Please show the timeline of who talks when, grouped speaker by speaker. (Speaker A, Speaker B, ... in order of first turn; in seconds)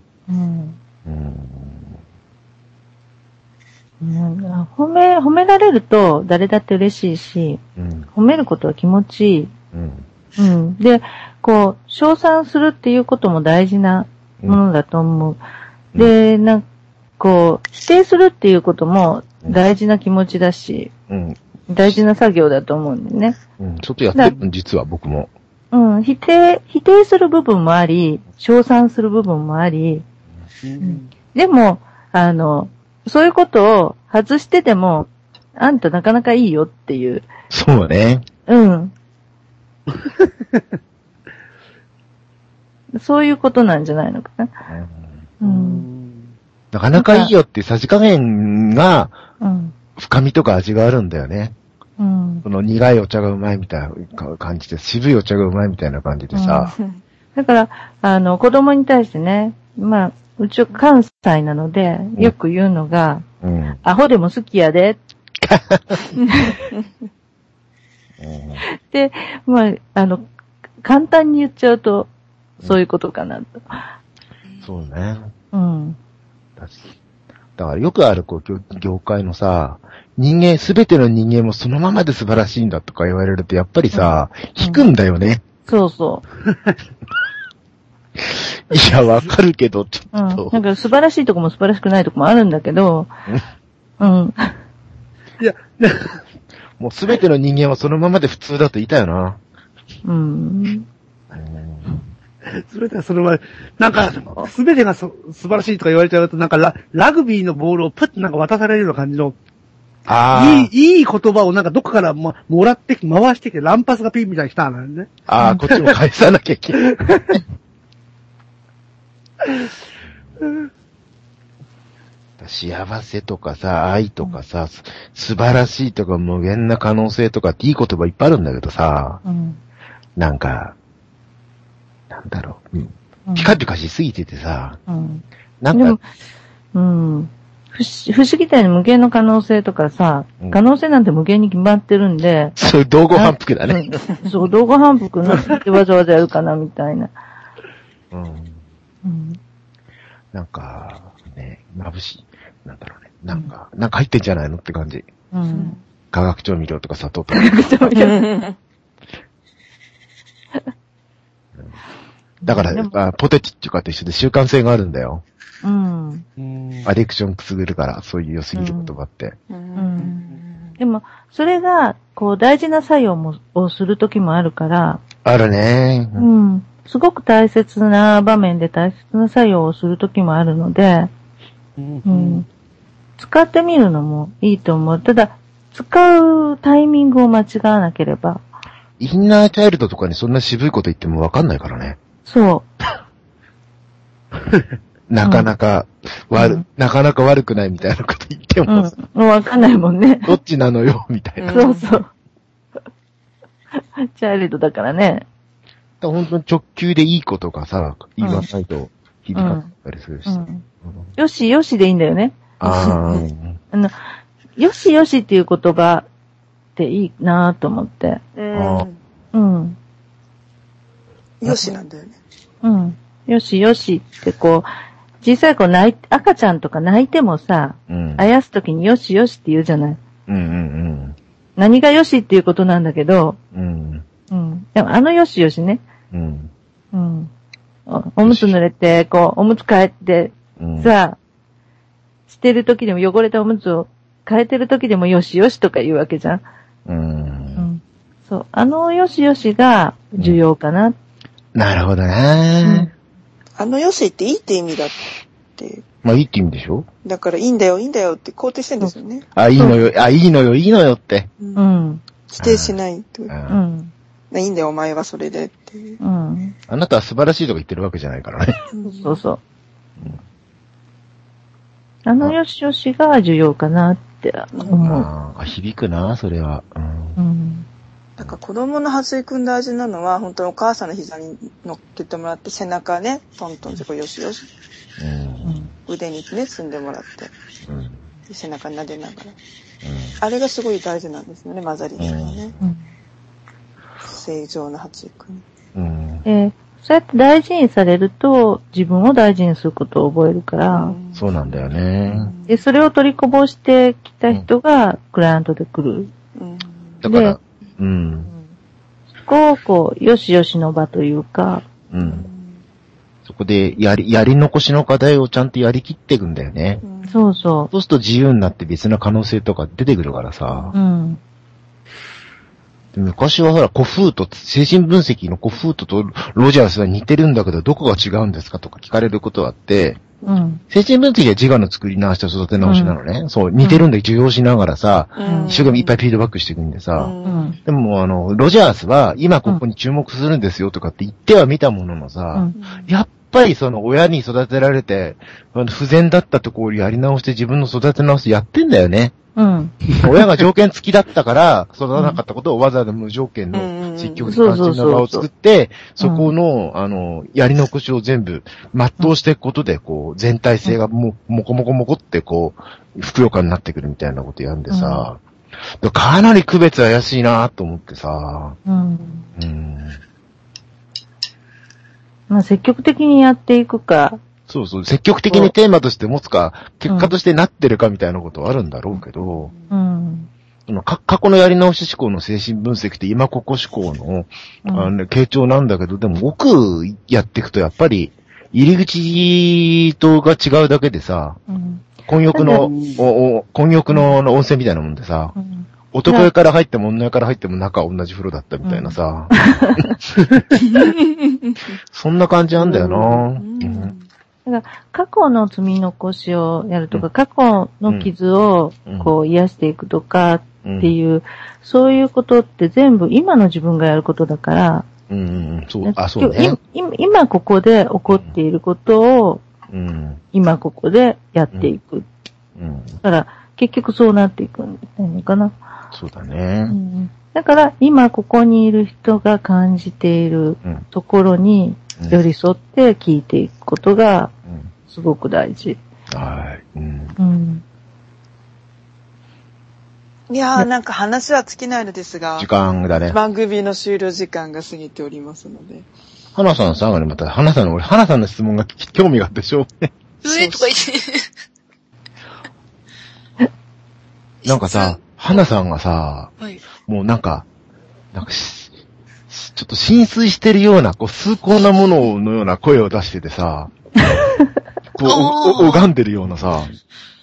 Speaker A: 0.3-0.8, 4.0-7.6, 8.1-9.5, 10.4-15.4, 15.9-16.6, 17.2-20.9, 21.7-23.4, 25.7-30.0, 30.8-37.2, 38.5-38.9, 43.0-44.5, 45.4-45.9, 46.9-47.3, 49.4-49.7, 52.0-52.4, 56.3-56.7, 57.3-63.2, 63.8-65.0, 66.3-66.6, 68.6-70.3, 70.8-73.8, 75.5-76.0, 83.9-84.9, 85.7-86.2, 90.1-93.1, 94.0-94.6, 100.0-100.9, 115.4-115.6, 129.2-129.6, 133.2-133.6, 134.9-136.0, 136.7-142.6, 143.1-147.1, 149.0-149.4, 155.3-155.8, 157.3-158.2, 162.4-162.9, 165.6-166.2, 168.5-168.9, 169.8-170.1, 170.8-175.0, 176.2-181.1, 182.0-182.4, 183.2-188.4, 192.2-192.7, 195.2-195.5, 196.3-196.6, 198.7-200.4, 201.5-202.1, 203.7-205.2, 208.2-208.5, 209.3-209.7, 210.2-210.6, 211.2-213.1, 214.6-216.1, 216.8-218.2, 219.3-219.8, 222.6-224.7, 225.2-230.0, 231.6-233.4, 234.3-235.8, 236.9-237.3, 237.9-241.2, 242.3-246.4, 247.6-250.9, 252.6-252.9, 259.6-259.9, 261.6-262.0, 263.5-263.9, 266.0-266.5, 268.8-269.4, 272.0-275.1, 277.2-277.6, 285.4-285.7, 292.6-292.9, 296.2-300.9, 302.5-306.1, 307.1-307.4, 308.2-308.5, 309.2-311.6, 317.1-317.7, 320.7-321.2, 330.3-330.6, 332.6-333.0, 333.6-333.9, 337.2-337.6, 349.4-349.8, 351.9-352.2, 354.3-355.2, 356.0-356.3, 364.7-365.1, 368.6-369.3, 372.3-374.2, 376.9-377.1, 379.7-380.3, 384.6-384.9, 391.5-392.7, 395.4-396.3, 398.6-399.9, 404.4-414.9, 415.8-419.4, 420.3-422.1, 423.0-425.6, 426.7-434.3, 434.9-435.8, 437.2-437.6
Speaker B: 1.0-2.0, 7.8-8.1, 9.7-10.0, 21.1-21.4, 23.6-25.3, 37.5-38.2, 44.7-45.2, 46.7-49.2, 50.0-51.5, 52.4-56.7, 63.4-63.8, 65.4-66.0, 68.2-68.6, 74.6-75.3, 77.6-85.4, 88.2-90.6, 96.8-99.4, 101.3-102.0, 110.1-110.7, 115.3-117.4, 122.4-129.2, 130.2-130.7, 132.1-134.8, 135.6-136.0, 142.6-144.0, 148.1-148.6, 150.3-155.1, 156.1-157.7, 162.4-165.2, 166.8-169.3, 175.2-176.3, 189.0-192.0, 195.1-198.9, 200.2-201.5, 206.0-211.1, 212.6-213.6, 218.5-218.9, 227.9-228.3, 230.3-231.2, 233.5-234.0, 236.1-236.5, 238.2-238.6, 240.6-240.9, 246.8-247.7, 251.5-252.9, 256.0-256.9, 259.3-261.3, 262.4-262.8, 263.3-263.6, 266.7-268.6, 274.8-277.2, 285.0-285.7, 287.6-288.0, 289.8-290.2, 292.0-292.6, 295.7-296.2, 301.1-302.3, 307.0-308.3, 311.9-312.3, 313.2-316.8, 317.7-320.7, 322.9-330.0, 330.7-349.1, 350.0-365.2, 365.8-368.6, 369.4-370.0, 374.5-379.5, 380.7-391.4, 392.1-395.3, 395.9-399.9, 401.9-403.9, 407.9-408.1, 408.9-409.1, 410.6-410.9, 415.1-416.6, 418.1-418.4, 419.7-420.2, 422.6-423.0, 425.9-426.8, 436.1-437.1, 442.4-443.2, 446.3-449.9, 454.4-456.3, 456.8-457.5, 458.1-458.7, 459.3-463.7, 464.9-466.7
Speaker C: 30.6-31.1, 39.9-40.6, 45.4-46.3, 95.4-96.2, 102.5-109.3, 110.3-115.1, 116.8-117.4, 166.4-166.9, 170.0-170.3, 181.8-182.4, 392.4-393.1, 402.7-403.2
Speaker D: 155.5-155.8, 157.9-158.6, 169.5-170.8, 201.4-202.0, 212.7-213.2, 218.3-219.0, 221.4-222.2, 253.6-255.0, 255.6-255.8, 257.0-259.2, 261.4-263.3, 264.3-266.0, 268.7-269.2, 274.5-274.9, 278.2-284.5, 285.9-287.3, 288.3-289.4, 290.2-292.5, 294.0-295.4, 300.7-302.6, 306.3-307.0, 312.0-312.6, 316.8-317.3, 320.5-320.8, 335.1-335.9, 336.9-337.6, 342.5-342.9, 353.5-354.4, 400.6-401.8, 403.3-404.1, 440.3-442.5, 443.1-445.9, 450.2-450.6
Speaker E: 450.2-451.2, 454.4-455.4, 465.0-465.9